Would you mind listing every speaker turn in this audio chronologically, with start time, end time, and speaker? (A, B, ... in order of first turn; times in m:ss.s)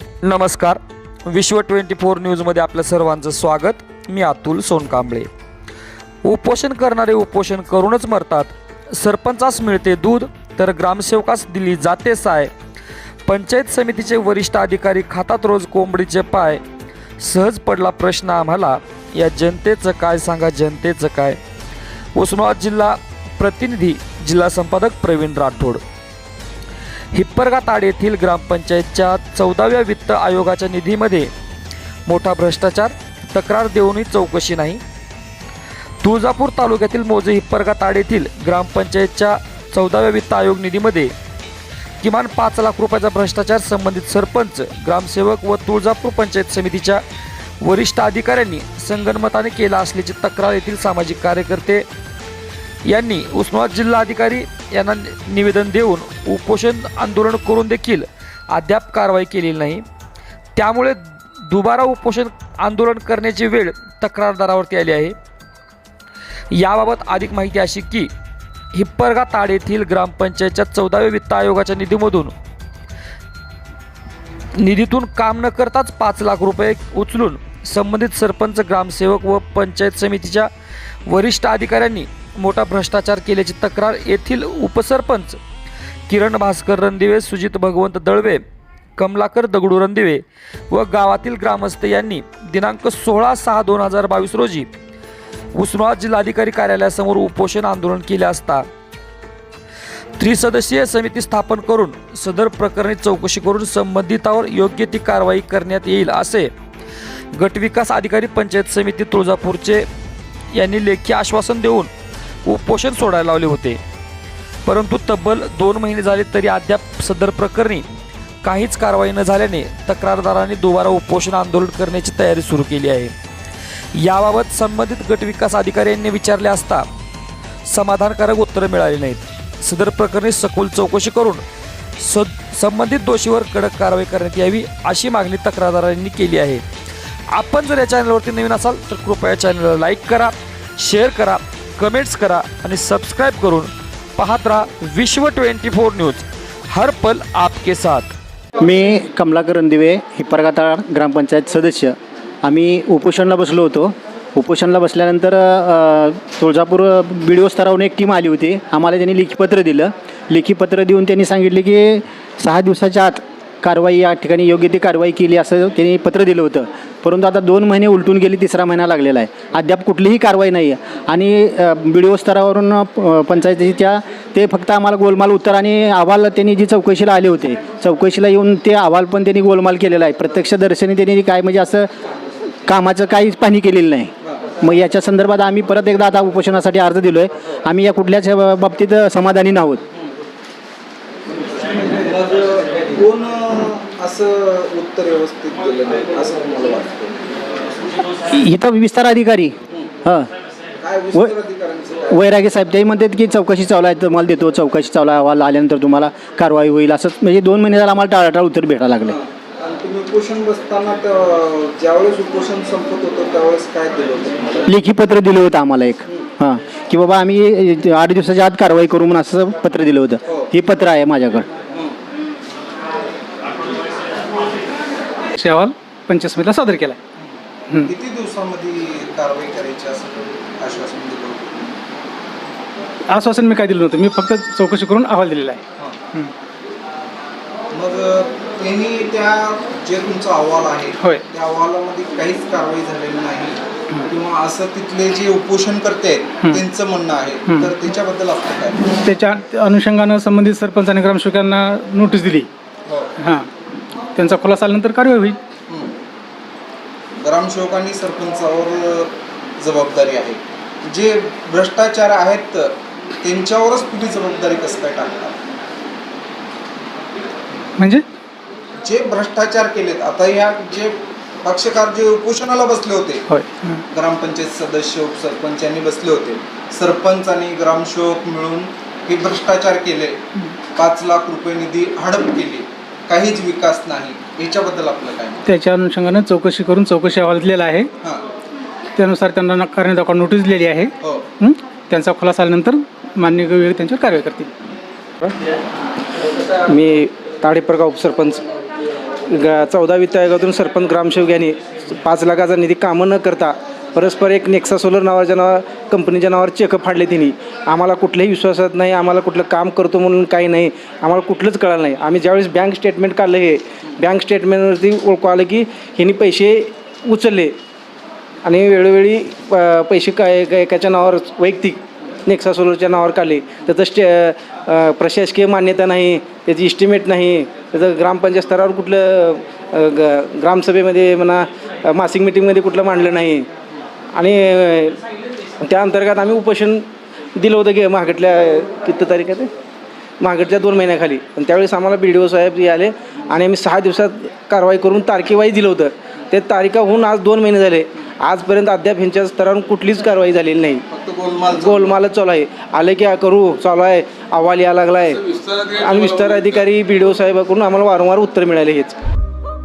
0:00.2-0:05.3 A
0:06.2-0:12.5 A
0:13.3-0:16.6 A
0:17.2-0:21.4 A
0:22.2-0:25.8 A
0:27.1-0:31.3 A
0:32.0-0:34.8 A
0:36.0-0:41.1 A
0:42.0-0:47.0 A
0:47.6-0:51.9 A
0:52.8-0:59.8 A
1:00.6-1:05.2 A
1:06.5-1:08.1 A
1:08.7-1:12.3 A
1:14.6-1:20.5 A
1:21.1-1:25.4 A
1:26.1-1:28.4 A
1:29.0-1:34.7 A
1:35.5-1:38.7 A
1:40.2-1:46.5 A
1:47.3-1:49.9 A
1:50.5-1:51.9 A
1:52.4-1:53.8 A
1:54.6-1:57.8 A
1:58.4-2:03.1 A
2:03.9-2:06.8 A
2:07.6-2:11.4 A
2:12.0-2:16.6 A
2:17.3-2:28.1 A
2:28.6-3:01.9 B
3:02.7-3:09.8 B
3:11.6-3:17.2 C
3:18.2-3:20.3 B
3:20.8-3:22.2 C
3:22.1-3:29.2 B
3:29.1-3:34.7 C
3:34.7-3:41.4 B
3:45.4-3:47.0 D
3:47.2-3:51.8 C
3:53.1-3:55.6 D
3:57.7-4:08.9 C
4:07.5-4:07.7 D
4:09.0-4:12.5 D
4:12.9-4:13.1 C
4:13.2-4:13.5 D
4:14.2-4:15.4 D
4:15.7-4:16.0 C
4:17.2-4:25.4 C
4:27.8-4:28.0 D
4:28.8-4:33.2 C
4:33.3-4:33.8 D
4:33.9-4:40.2 C
4:40.7-4:45.4 C
4:45.4-4:47.9 D
4:48.0-4:48.3 C
4:49.0-4:54.5 D
4:51.0-4:51.3 C
4:56.6-4:58.4 E
4:59.3-5:17.6 E
5:18.4-5:33.5 E
5:34.1-5:35.0 E
5:35.6-5:36.8 E
5:37.4-5:39.5 E
5:40.2-5:50.8 E
5:50.9-5:52.0 C
5:51.5-5:59.0 E